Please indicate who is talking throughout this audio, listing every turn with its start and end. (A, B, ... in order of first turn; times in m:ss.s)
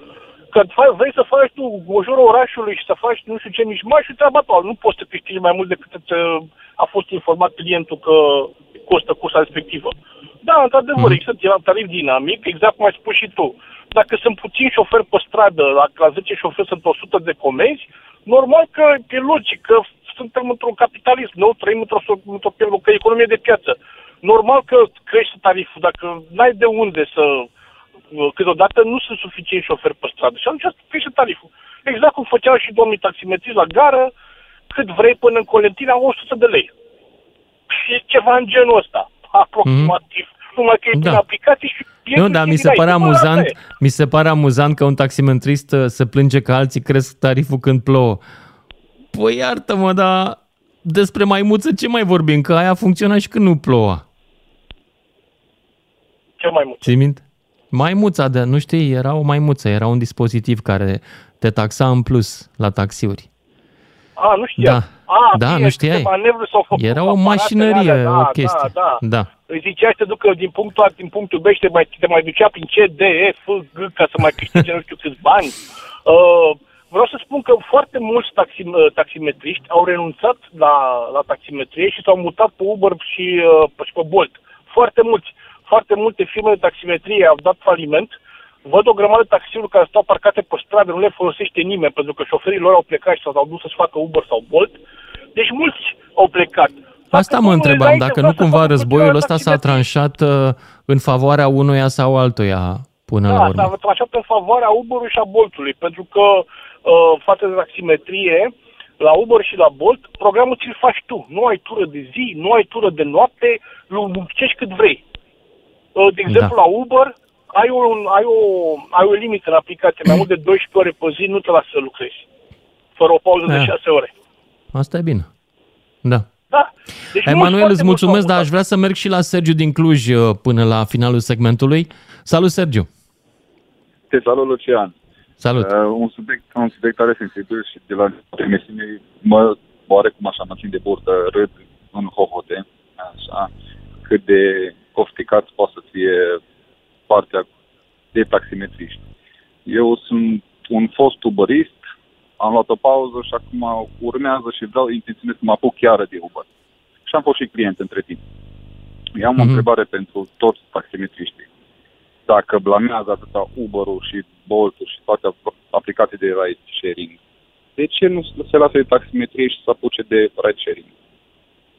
0:00.5-0:09.9 A
0:10.4-0:27.5 A
0:11.0-0:11.2 B
0:28.2-0:34.1 A
0:34.7-0:36.7 A
0:37.7-0:43.5 A
0:39.6-0:40.0 B
0:40.9-0:41.2 B
0:42.1-0:48.2 B
0:49.1-0:54.0 B
0:56.4-0:56.9 A
0:56.8-1:03.3 B
1:04.2-1:15.6 A
1:04.6-1:06.1 B
1:06.7-1:09.3 B
1:16.1-1:28.1 A
1:28.6-1:34.8 A
1:35.4-1:39.8 A
1:37.1-1:43.7 B
1:43.3-1:55.0 A
1:56.0-2:02.2 A
1:56.3-1:56.6 B
2:03.0-2:04.1 A
2:03.4-2:03.8 B
2:04.7-2:05.3 B
2:06.5-2:08.5 A
2:07.2-2:12.9 B
2:14.1-2:14.9 C
2:15.4-2:15.7 B
2:15.6-2:23.5 C
2:24.0-2:26.4 C
2:27.1-2:27.5 C
2:28.1-2:29.0 C
2:29.7-2:31.8 C
2:32.4-2:36.5 C
2:37.1-2:38.2 C
2:39.2-2:41.5 C
2:39.4-2:39.6 B
2:42.3-2:47.2 C
2:47.8-2:50.9 C